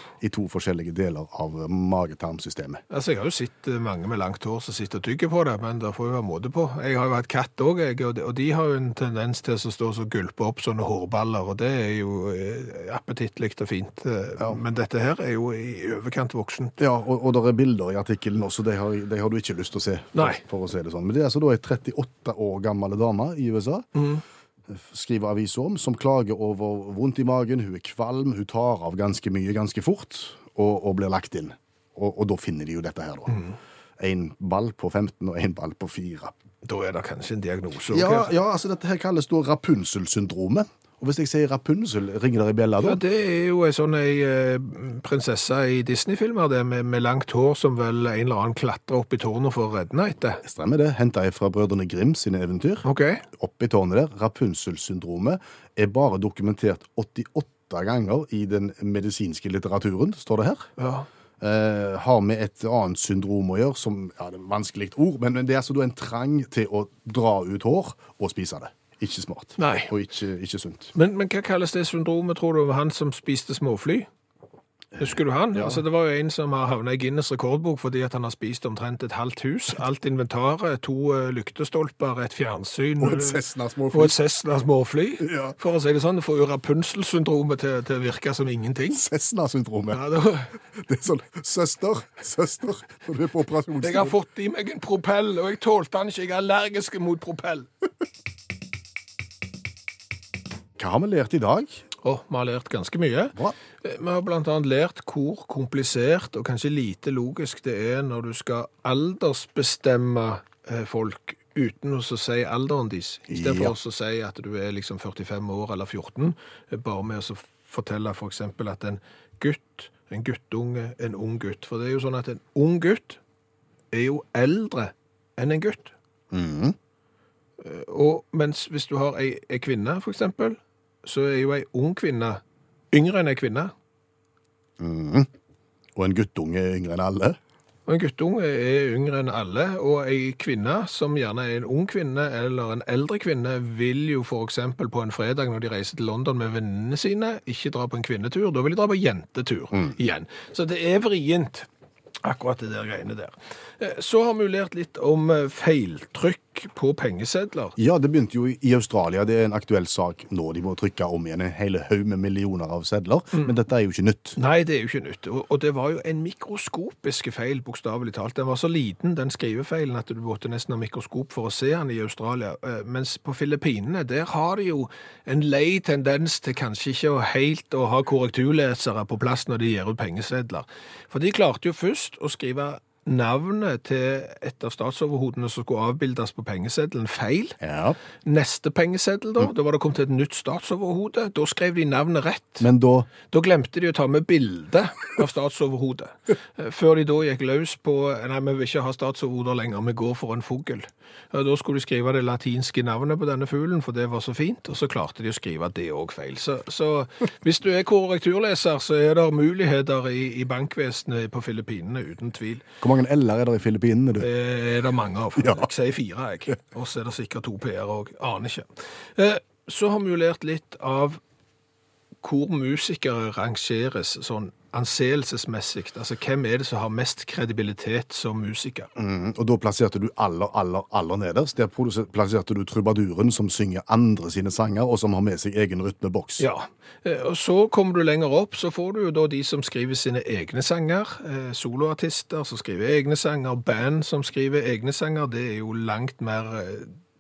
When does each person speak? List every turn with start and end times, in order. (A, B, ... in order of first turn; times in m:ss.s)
0:00.2-0:02.8 A
0:02.9-0:16.8 B
0:16.8-0:23.9 A
0:20.2-0:20.4 B
0:24.0-0:24.2 B
0:24.7-0:33.4 A
0:33.3-0:33.6 B
0:34.0-0:36.3 A
0:36.6-0:38.3 B
0:37.9-0:43.0 A
0:42.8-0:50.4 B
0:50.4-1:00.7 A
0:52.8-0:53.2 B
1:00.8-1:01.1 B
1:01.4-1:10.9 A
1:09.6-1:09.9 B
1:11.0-1:14.1 B
1:15.0-1:29.0 B
1:15.5-1:15.8 A
1:23.0-1:24.2 A
1:25.2-1:25.6 A
1:28.9-1:30.0 A
1:29.9-1:30.6 B
1:30.8-1:34.2 A
1:33.8-1:37.7 B
1:40.8-1:41.8 A
1:42.0-2:03.2 B
1:53.3-1:53.8 A
2:03.9-2:06.0 B
2:06.3-2:06.8 A
2:07.6-2:12.4 B
2:12.9-2:13.7 B
2:14.8-2:15.3 A
2:16.0-2:17.4 A
2:17.9-2:31.7 B
2:32.2-2:37.8 B
2:37.8-2:44.4 A
2:44.4-3:07.6 B
3:07.6-3:08.0 A
3:08.2-3:12.7 B
3:12.6-3:13.1 A
3:13.3-3:32.6 B
3:32.8-3:34.3 A
3:34.2-3:41.2 B
3:35.4-3:35.7 A
3:42.2-3:48.9 B
3:49.0-3:56.5 A
3:56.4-4:07.0 B